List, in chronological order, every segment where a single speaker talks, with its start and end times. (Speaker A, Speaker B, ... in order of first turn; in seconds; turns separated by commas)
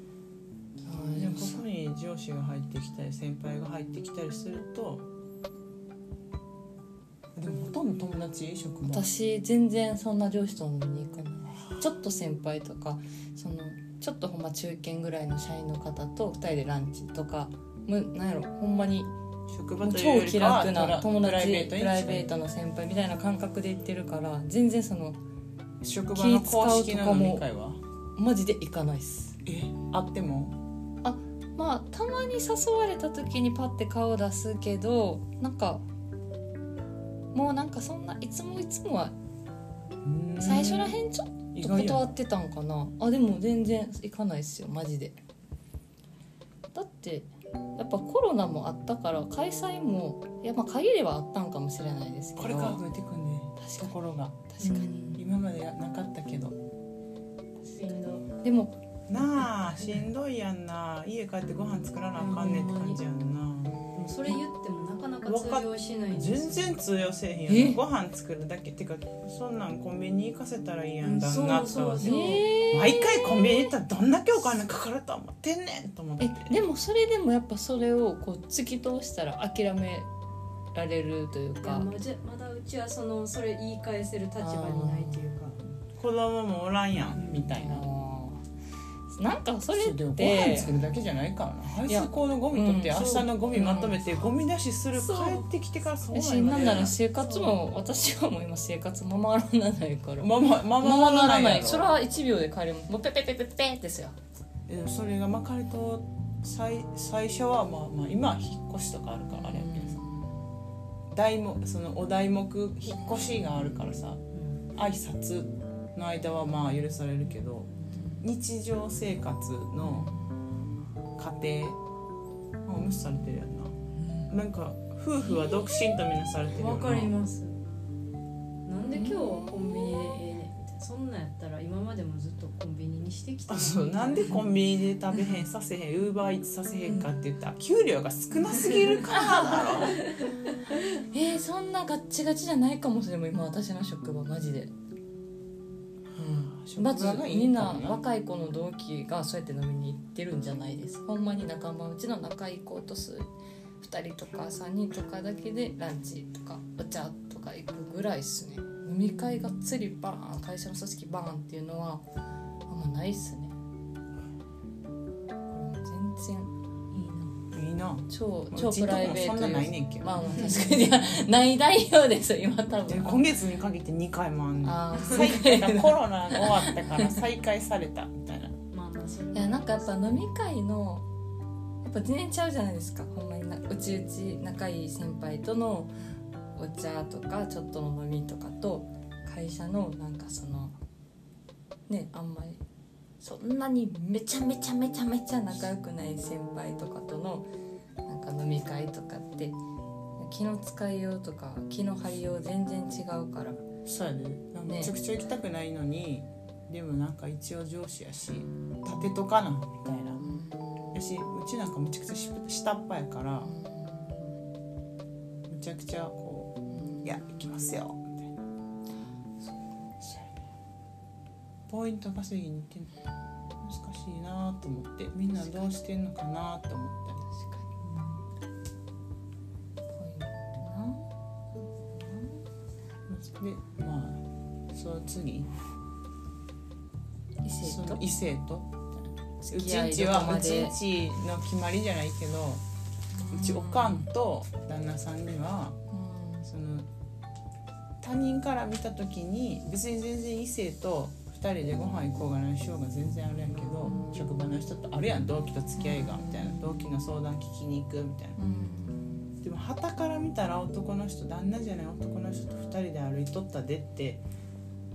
Speaker A: 0.8-1.6, Speaker B: 1.1-5.0, Speaker B: 7.3-9.1, Speaker A: 8.8-19.1, Speaker B: 19.5-22.3, Speaker A: 19.8-25.2, Speaker B: 25.8-27.8, Speaker A: 26.1-27.4, Speaker A: 28.2-29.4, Speaker B: 29.4-30.6, Speaker A: 31.0-35.8, Speaker A: 37.3-39.1, Speaker B: 40.0-41.0, Speaker A: 40.4-45.1, Speaker B: 41.5-42.1, Speaker A: 46.7-52.8, Speaker B: 52.4-56.6, Speaker A: 53.6-53.9, Speaker A: 54.5-55.2, Speaker C: 54.6-55.2, Speaker C: 57.7-58.3, Speaker A: 58.2-58.8, Speaker B: 59.1-63.8, Speaker C: 62.2-63.0, Speaker C: 63.9-66.8, Speaker B: 65.2-72.1, Speaker A: 67.5-67.8, Speaker C: 71.0-72.5, Speaker A: 72.0-73.7, Speaker B: 72.7-76.6, Speaker A: 76.2-80.1, Speaker A: 80.7-81.9, Speaker C: 81.6-85.6, Speaker A: 84.4-85.3, Speaker B: 85.8-87.8, Speaker C: 87.1-87.5, Speaker A: 87.5-88.4, Speaker A: 89.1-90.8, Speaker B: 89.7-96.9, Speaker A: 91.8-94.0, Speaker C: 92.9-93.3, Speaker C: 94.9-95.5, Speaker A: 96.1-104.2, Speaker C: 97.2-97.5, Speaker B: 100.2-101.9, Speaker B: 104.7-110.0, Speaker A: 109.4-110.4, Speaker B: 111.1-114.2, Speaker C: 114.3-114.7, Speaker B: 114.7-120.1, Speaker A: 117.9-118.2, Speaker A: 119.8-120.3, Speaker B: 121.2-121.8, Speaker B: 122.7-123.7, Speaker B: 124.3-127.1, Speaker C: 125.3-125.5, Speaker C: 126.5-127.6, Speaker C: 128.7-134.5, Speaker A: 128.9-130.1, Speaker B: 133.5-140.0, Speaker C: 136.8-137.2, Speaker C: 138.5-139.1, Speaker A: 139.1-139.9, Speaker C: 139.8-140.3, Speaker A: 141.1-144.7, Speaker A: 146.2-153.3, Speaker B: 146.2-148.0, Speaker A: 153.8-162.0, Speaker A: 162.7-163.5, Speaker A: 165.5-166.5, Speaker C: 166.9-167.4, Speaker B: 167.5-170.6, Speaker A: 168.1-173.2, Speaker C: 170.2-170.9, Speaker B: 172.9-178.5, Speaker A: 174.6-177.2, Speaker C: 178.7-180.2, Speaker A: 179.3-181.0, Speaker A: 181.8-185.9, Speaker A: 186.6-190.7, Speaker A: 191.9-192.6, Speaker A: 193.2-197.5, Speaker A: 198.1-199.6, Speaker A: 200.2-203.6, Speaker B: 203.8-210.2, Speaker A: 204.7-204.9, Speaker A: 210.2-210.9, Speaker B: 210.9-213.5, Speaker A: 213.4-214.3, Speaker B: 215.5-218.3, Speaker A: 216.7-217.0, Speaker A: 219.4-220.2, Speaker B: 221.7-222.9, Speaker B: 223.6-227.2, Speaker A: 227.3-227.7, Speaker C: 227.8-228.2, Speaker A: 229.9-231.1, Speaker A: 231.6-232.4, Speaker B: 233.1-235.5, Speaker A: 237.4-238.0, Speaker B: 237.6-242.6, Speaker A: 239.4-240.8, Speaker A: 243.1-244.1, Speaker B: 243.3-245.8, Speaker A: 245.9-246.4, Speaker B: 246.4-246.9, Speaker B: 248.0-258.4, Speaker A: 253.8-254.2, Speaker A: 255.8-256.6, Speaker A: 258.4-259.3, Speaker B: 259.4-264.2